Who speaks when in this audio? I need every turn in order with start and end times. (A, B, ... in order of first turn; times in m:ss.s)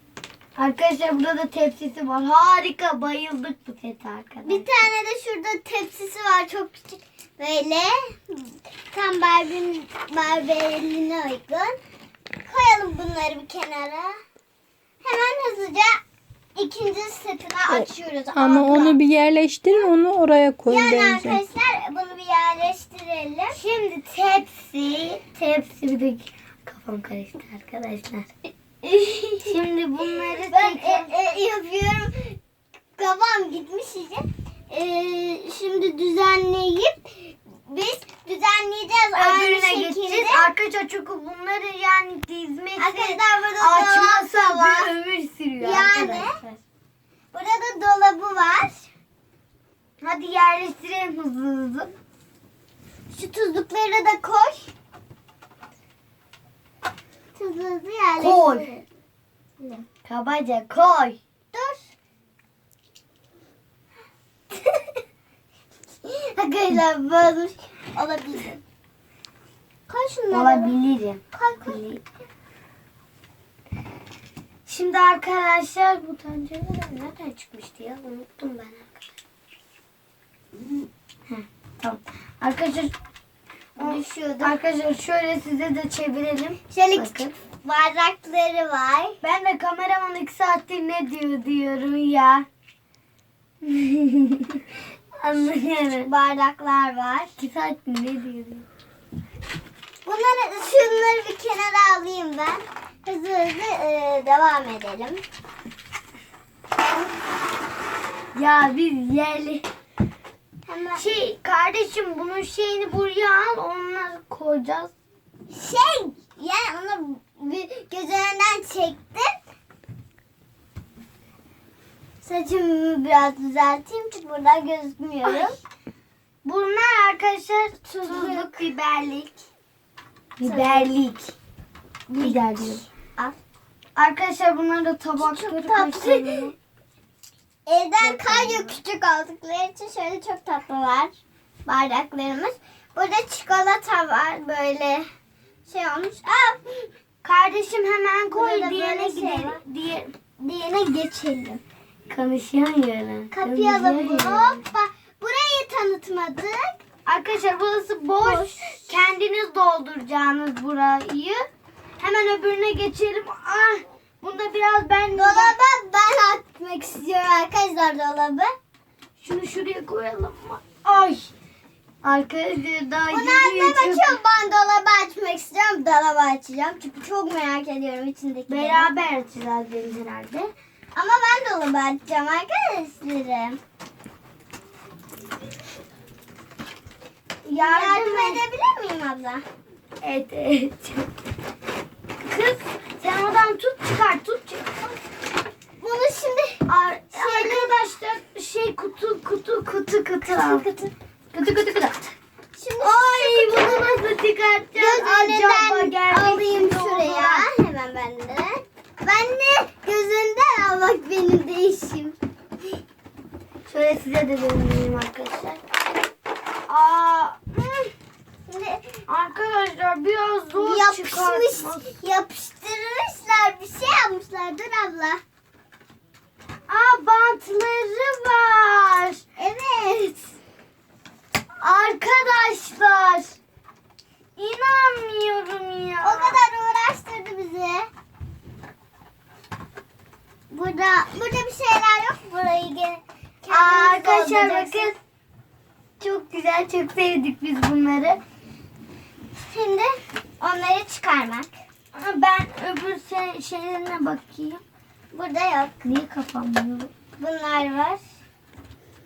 0:00.6-0:04.9 A
0:04.4-0:11.8 B
0:12.4-0:14.2 B
0:15.0-0:16.0 B
0:16.6-0:19.0 B
0:17.7-0:21.4 C
0:20.7-0:23.6 B
0:23.5-0:28.3 A
0:28.8-0:29.5 B
0:29.4-0:31.1 A
0:30.0-0:32.4 B
0:33.0-0:40.5 B
0:39.2-0:46.6 A
0:42.8-0:44.9 B
0:45.6-0:46.4 B
0:47.3-0:48.9 B
0:50.0-0:51.9 A
0:53.1-0:54.7 B
0:57.4-0:58.8 B
0:58.2-0:58.7 A
1:00.0-1:01.2 A
1:01.5-1:01.9 B
1:06.1-1:08.6 B
1:06.4-1:07.5 A
1:09.9-1:10.8 B
1:10.3-1:11.8 A
1:11.3-1:12.0 B
1:14.7-1:19.0 A
1:21.3-1:22.9 A
1:23.8-1:24.6 B
1:23.8-1:27.3 A
1:26.7-1:29.2 B
1:29.2-1:32.5 A
1:33.6-1:34.6 A
1:35.2-1:36.1 A
1:36.0-1:37.3 B
1:37.4-1:38.6 A
1:40.0-1:45.2 B
1:48.3-1:49.6 A
1:50.7-1:51.1 B
1:51.0-1:54.9 A
1:55.5-1:59.3 B
2:02.2-2:05.6 B
2:05.2-2:05.5 A
2:06.4-2:09.4 A
2:07.9-2:08.7 B
2:10.4-2:11.3 A
2:10.4-2:10.9 B
2:12.1-2:13.4 B
2:12.2-2:12.8 A
2:14.0-2:16.6 A
2:15.2-2:16.5 B
2:17.7-2:21.1 B
2:18.0-2:18.8 A
2:21.7-2:25.1 B
2:25.6-2:26.9 B
2:27.2-2:30.1 A
2:28.3-2:29.6 B
2:30.4-2:31.6 B
2:32.1-2:34.6 A
2:33.3-2:36.8 B
2:37.0-2:41.4 A
2:38.2-2:39.0 B
2:42.0-2:45.6 A
2:45.1-2:48.5 B
2:49.2-2:51.3 A
2:52.0-2:54.2 A
2:53.1-2:58.9 B
2:58.5-3:00.5 A
3:01.0-3:03.6 B
3:07.4-3:08.4 A
3:07.6-3:09.4 B
3:10.0-3:11.1 A
3:12.2-3:15.0 A
3:15.8-3:17.8 B
3:16.7-3:20.7 A
3:20.2-3:20.9 B
3:21.3-3:22.1 A
3:22.6-3:24.0 B
3:22.8-3:27.5 A
3:24.8-3:32.2 B
3:33.7-3:35.6 A
3:36.7-3:37.9 A
3:38.5-3:38.9 B
3:39.1-3:41.9 A
3:40.6-3:45.2 B
3:46.7-3:49.2 A
3:49.4-3:50.3 B
3:51.6-3:53.4 A
3:54.4-3:56.4 A
3:56.0-3:57.9 B
4:00.5-4:05.0 B
4:03.5-4:05.0 A
4:06.0-4:08.2 A
4:09.4-4:11.5 B
4:11.9-4:14.6 A
4:15.1-4:15.9 B
4:15.8-4:16.9 A
4:17.2-4:18.0 B